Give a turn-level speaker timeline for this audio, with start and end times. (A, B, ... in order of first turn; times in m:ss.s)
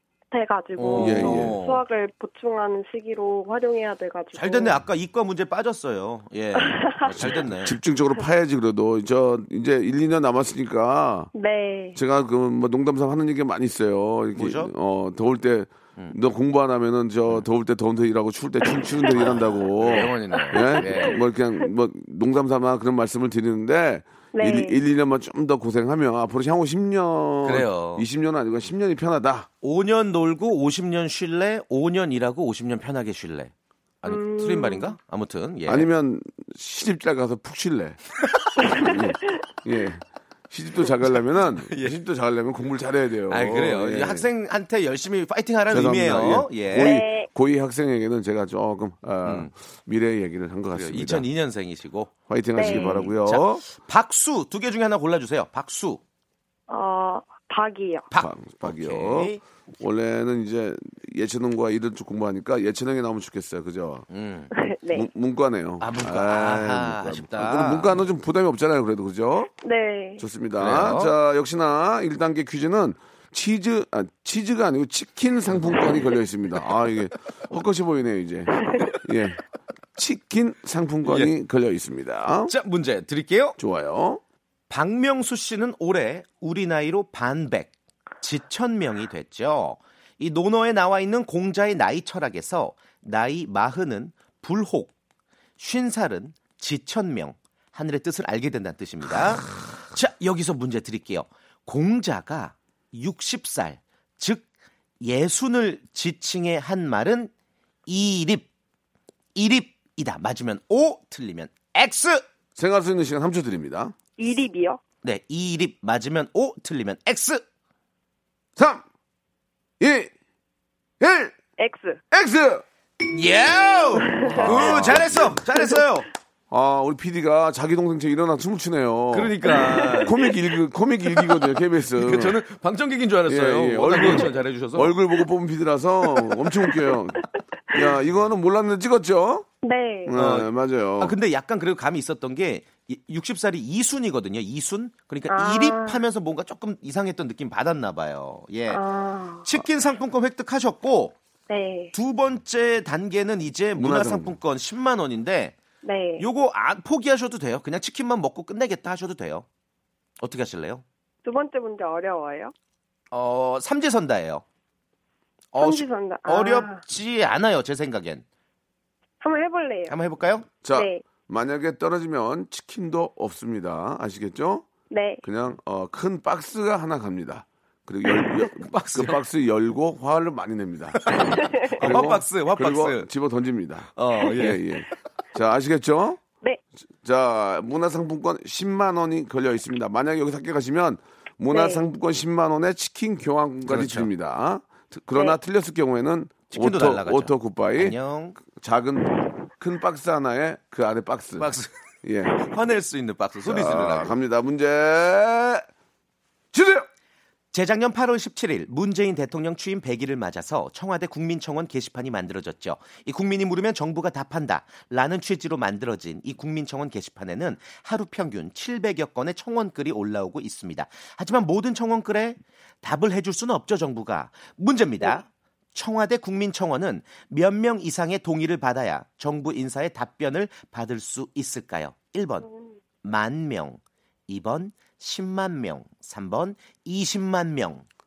0:00.3-0:04.8 A
0:00.8-0:01.8 B
0:01.0-0:01.6 C
0:04.3-0:07.8 B
0:06.6-0:07.4 A
0:07.1-0:11.3 C
0:11.3-0:12.0 A
0:12.0-0:29.5 C
0:14.4-0:14.7 B
0:19.1-0:21.2 B
0:20.5-0:20.8 A
0:24.4-0:24.8 A
0:27.4-0:28.0 B
0:29.6-0:35.9 B
0:34.0-0:35.0 A
0:35.7-0:38.0 C
0:38.7-0:44.3 C
0:41.1-0:42.0 B
0:43.3-0:47.0 B
0:45.7-0:51.3 C
0:46.8-0:47.3 A
0:49.2-0:49.5 B
0:50.7-0:56.0 B
0:52.3-0:53.6 C
0:52.6-0:53.0 A
0:56.7-0:58.1 A
0:58.1-0:59.4 B
0:58.2-1:04.1 C
1:04.1-1:04.5 B
1:04.5-1:05.1 A
1:04.9-1:09.5 C
1:05.8-1:08.0 B
1:09.6-1:10.2 A
1:10.2-1:19.4 C
1:10.6-1:11.1 B
1:15.7-1:16.0 B
1:20.0-1:22.5 C
1:21.0-1:21.3 B
1:22.5-1:23.6 B
1:23.6-1:24.2 C
1:24.7-1:34.9 B
1:35.6-1:44.5 B
1:45.0-1:47.3 B
1:47.9-1:48.5 B
1:49.4-1:52.2 B
1:52.6-1:54.0 C
1:54.2-1:54.8 A
1:55.0-1:57.4 B
1:58.6-1:58.8 C
1:59.8-2:00.1 C
2:01.0-2:01.4 C
2:01.6-2:02.0 A
2:02.1-2:02.6 C
2:03.1-2:06.1 B
2:04.0-2:04.9 A
2:04.3-2:05.4 C
2:06.5-2:12.4 C
2:09.1-2:10.2 B
2:09.5-2:10.2 A
2:11.9-2:15.0 B
2:13.3-2:19.5 C
2:19.6-2:20.2 A
2:20.1-2:21.2 C
2:20.2-2:28.8 B
2:25.3-2:26.0 A
2:28.7-2:29.5 A
2:29.4-2:31.2 B
2:31.5-2:31.9 A
2:31.9-2:35.6 B
2:33.8-2:34.4 C
2:35.8-2:36.3 A
2:36.2-2:39.5 B
2:40.2-2:40.8 B
2:41.2-2:42.5 A
2:43.1-2:44.4 B
2:45.5-2:48.2 B
2:45.6-2:46.8 A
2:49.2-2:50.0 A
2:49.9-2:50.5 B
2:50.6-2:54.7 C
2:50.7-2:51.0 A
2:54.9-2:55.2 A
2:55.2-3:06.2 C
2:58.2-2:59.2 B
3:01.0-3:03.1 B
3:01.4-3:01.8 A
3:04.0-3:04.6 B
3:07.0-3:21.5 C
3:11.5-3:11.8 A
3:13.7-3:14.1 B
3:16.5-3:18.4 B
3:21.4-3:21.7 B
3:22.0-3:22.4 C
3:22.4-3:24.2 B
3:23.4-3:25.7 C
3:26.5-3:26.9 C
3:27.5-3:52.5 B
3:52.4-3:52.8 A
3:53.0-3:57.9 B